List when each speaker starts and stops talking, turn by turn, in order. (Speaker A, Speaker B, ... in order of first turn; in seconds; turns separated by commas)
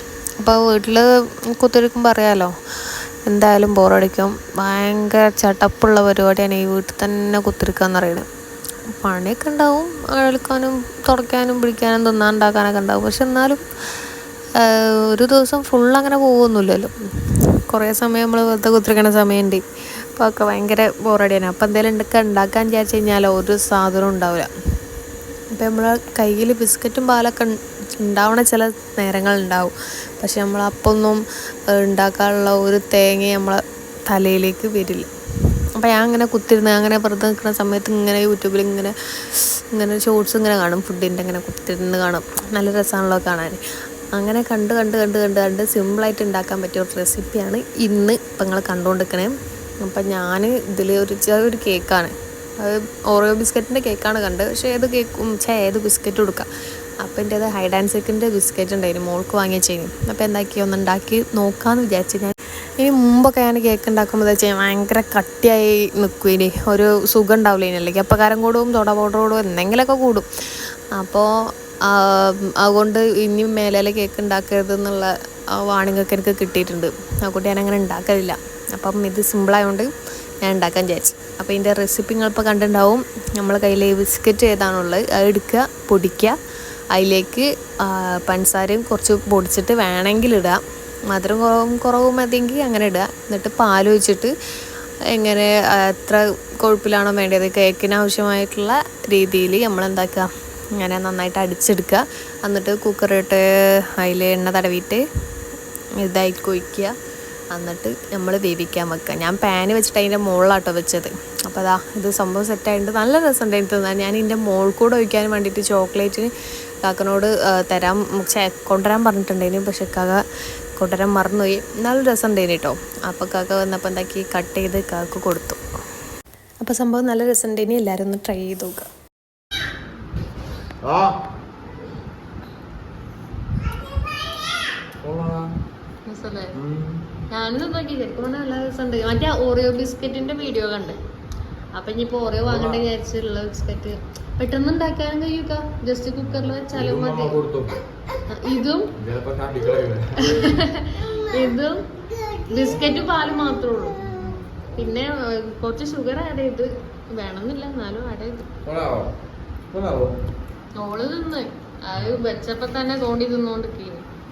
Speaker A: 0.4-2.5, Speaker A: 3.3-8.3, Speaker A: 8.9-13.6, Speaker A: 14.6-16.9, Speaker A: 17.7-19.6, Speaker A: 20.2-24.5, Speaker A: 25.5-35.1, Speaker A: 35.8-43.6, Speaker A: 44.1-56.5, Speaker A: 57.0-70.3, Speaker A: 71.0-71.3, Speaker A: 71.9-79.9, Speaker A: 80.4-86.4, Speaker A: 86.9-94.3, Speaker A: 95.1-103.4, Speaker A: 104.0-105.0, Speaker A: 106.0-106.9, Speaker A: 107.5-116.3, Speaker A: 116.8-120.2, Speaker A: 120.8-125.6, Speaker A: 126.6-128.9, Speaker B: 130.8-131.2, Speaker B: 135.0-135.5, Speaker A: 136.1-136.5, Speaker B: 136.6-137.1, Speaker A: 137.3-141.0, Speaker A: 141.8-147.4, Speaker B: 142.4-142.8, Speaker B: 146.2-147.9, Speaker A: 148.3-148.9, Speaker B: 148.9-150.6, Speaker A: 150.2-151.9, Speaker A: 152.4-154.1, Speaker A: 154.8-158.5, Speaker B: 158.6-159.1, Speaker B: 159.7-160.1, Speaker A: 160.8-164.1